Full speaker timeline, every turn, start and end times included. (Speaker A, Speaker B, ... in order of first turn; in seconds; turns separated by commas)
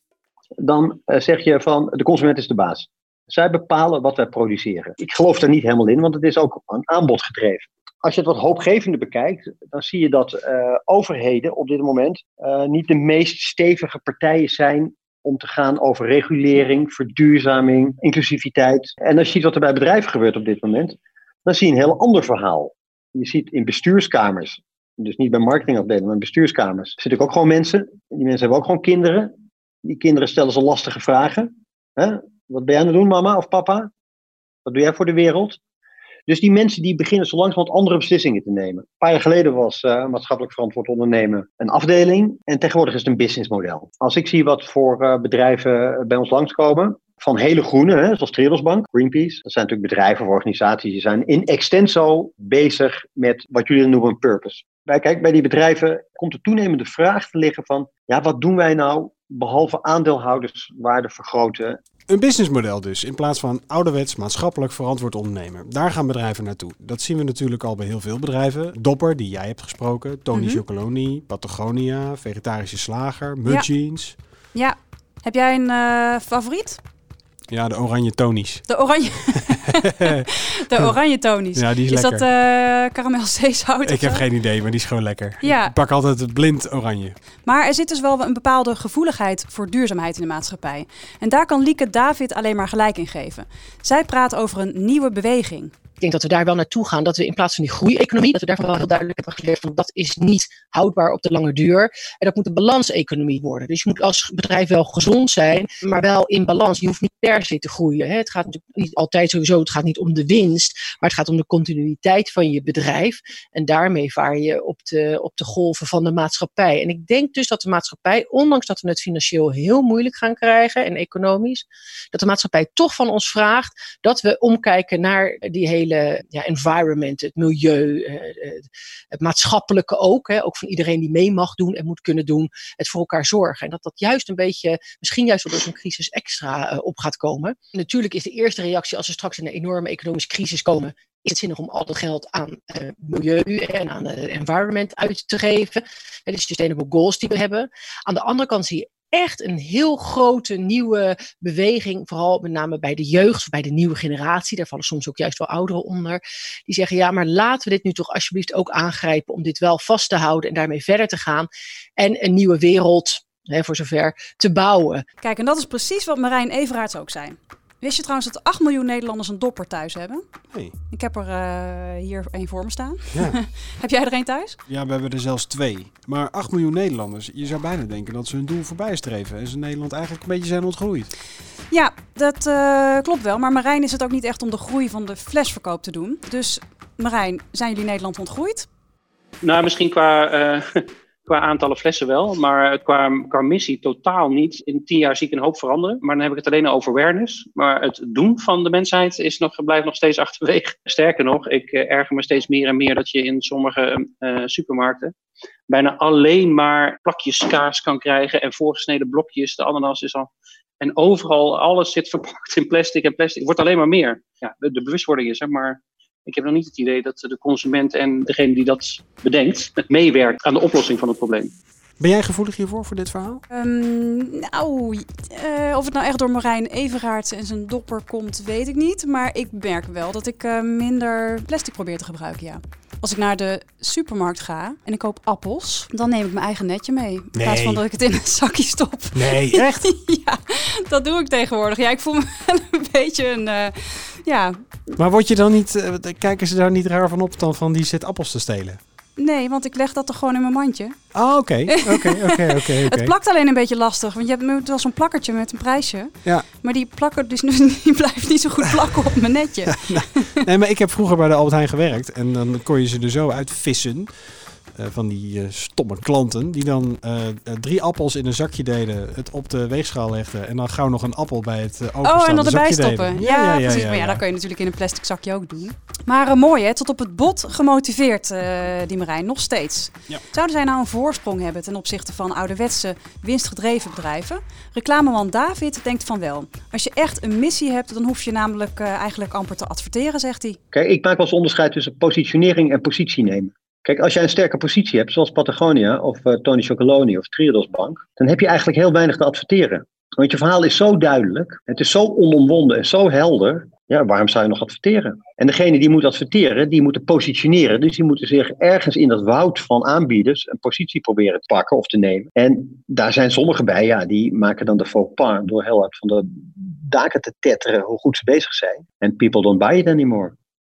Speaker A: 0.6-29.3, Speaker A: 29.9-33.9, Speaker A: 34.6-35.6, Speaker A: 36.3-61.8, Speaker B: 62.1-74.1, Speaker C: 70.3-70.6, Speaker C: 74.5-76.8, Speaker B: 77.5-78.7, Speaker C: 78.7-84.2, Speaker B: 81.5-82.2, Speaker B: 83.8-87.2, Speaker C: 85.4-85.7, Speaker C: 87.4-95.7, Speaker D: 96.0-165.0, Speaker C: 165.2-170.2, Speaker C: 170.9-174.6, Speaker B: 174.7-181.1, Speaker C: 181.7-188.7, Speaker E: 189.4-205.1, Speaker E: 205.7-210.3, Speaker E: 210.8-221.5, Speaker B: 222.0-223.4, Speaker C: 223.5-244.6, Speaker B: 237.3-237.8, Speaker B: 239.1-239.8, Speaker B: 245.0-248.8, Speaker C: 249.2-250.9, Speaker B: 251.1-253.1, Speaker C: 251.7-260.3, Speaker B: 259.8-274.2, Speaker C: 272.0-290.6, Speaker A: 290.7-320.3